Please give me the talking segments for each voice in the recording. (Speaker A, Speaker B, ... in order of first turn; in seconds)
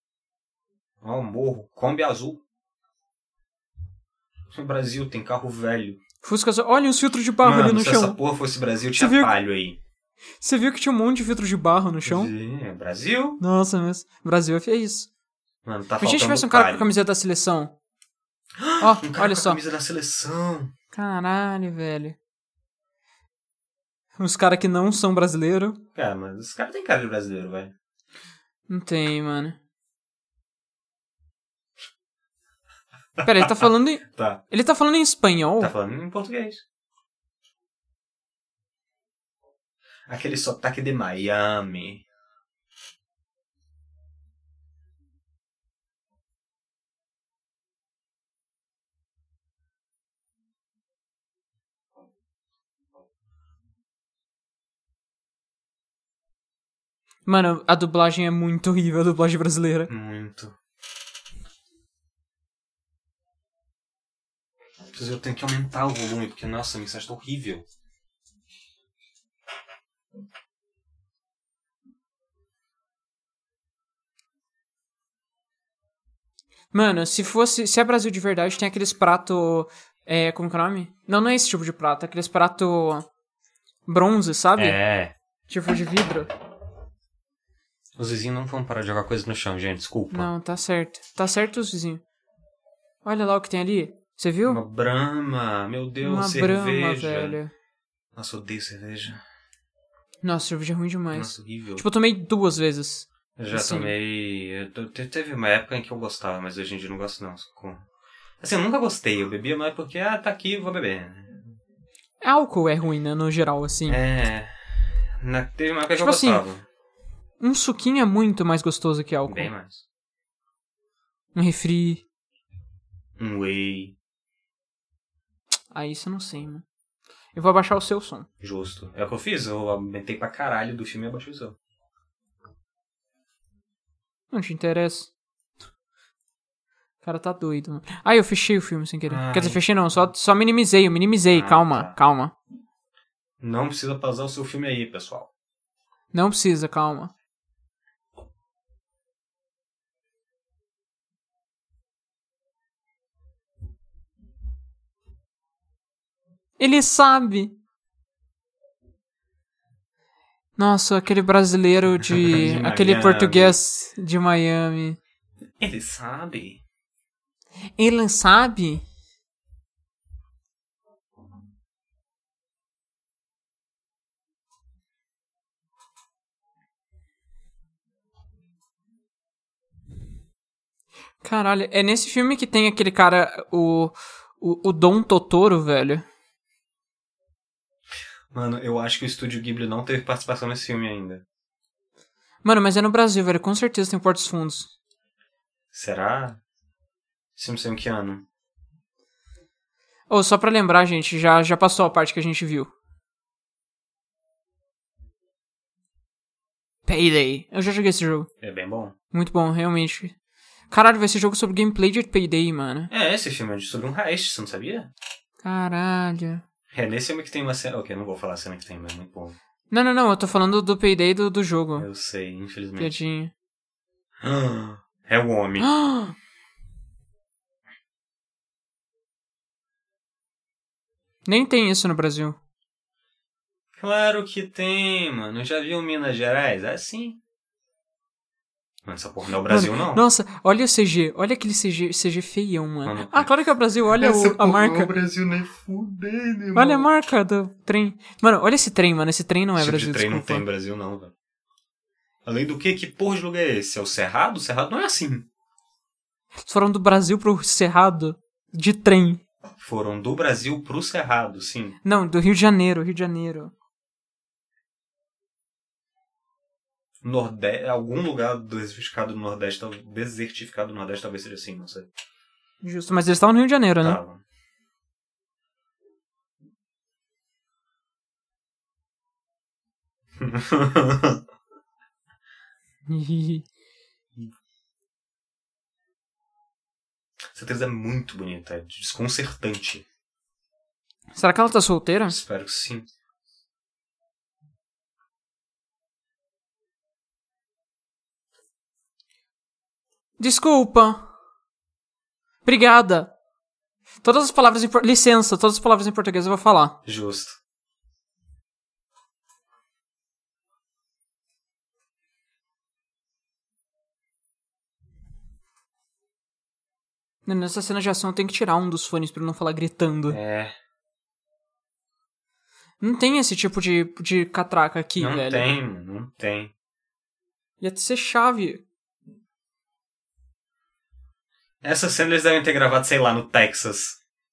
Speaker A: 1.0-2.4, 4.5-6.0, 7.4-9.8, 12.0-13.4, 15.6-16.9, 18.6-20.7, 25.9-27.7, 33.2-34.4, 35.6-36.6, 40.1-42.0, 59.9-60.5, 64.9-67.6, 84.5-85.1, 88.0-90.3, 94.5-97.3, 98.2-99.2, 101.1-101.8, 103.4-107.8, 108.4-111.4, 113.9-116.6, 119.3-119.8, 123.2-123.9, 128.4-131.6, 139.1-139.6, 141.3-141.9, 143.4-145.3, 162.1-163.6, 165.6-166.6, 188.3-191.2, 195.7-196.4, 197.3-198.2, 208.4-208.9, 212.9-214.9, 216.7-219.4, 221.8-222.9, 224.2-225.7, 233.8-237.2, 238.8-240.0, 242.8-243.3, 243.9-246.9, 249.6-251.1, 252.2-255.2, 259.6-261.8, 267.0-271.9, 273.8-274.2, 280.2-281.2, 287.3-289.8, 292.1-292.9, 306.9-307.4, 320.1-320.5, 325.0-326.5, 331.6-334.0
Speaker B: 6.2-8.2, 9.0-9.3, 10.4-12.3, 13.4-15.1, 16.0-17.7, 18.8-19.6, 20.9-22.1, 24.2-25.8, 28.7-29.6, 33.2-35.7, 57.2-59.9, 76.7-83.1, 83.8-84.8, 85.5-86.3, 90.1-92.0, 93.0-94.6, 96.0-97.5, 100.2-103.9, 112.2-114.0, 116.0-116.4, 117.4-119.5, 121.3-122.0, 125.7-126.6, 127.3-128.3, 134.3-135.1, 137.0-142.3, 146.1-147.1, 156.6-157.6, 160.6-165.0, 167.8-168.8, 181.2-186.0, 192.4-194.7, 200.1-202.7, 206.9-208.3, 209.1-210.1, 210.7-212.9, 215.4-216.4, 219.7-221.9, 222.8-223.3, 225.6-226.1, 231.2-232.4, 239.4-244.9, 246.5-250.4, 256.4-259.2, 261.8-263.5, 272.6-274.0, 282.9-283.4, 291.1-292.2, 300.2-301.1, 302.4-303.1, 304.0-306.8, 317.2-320.2, 322.8-325.5, 327.6-328.6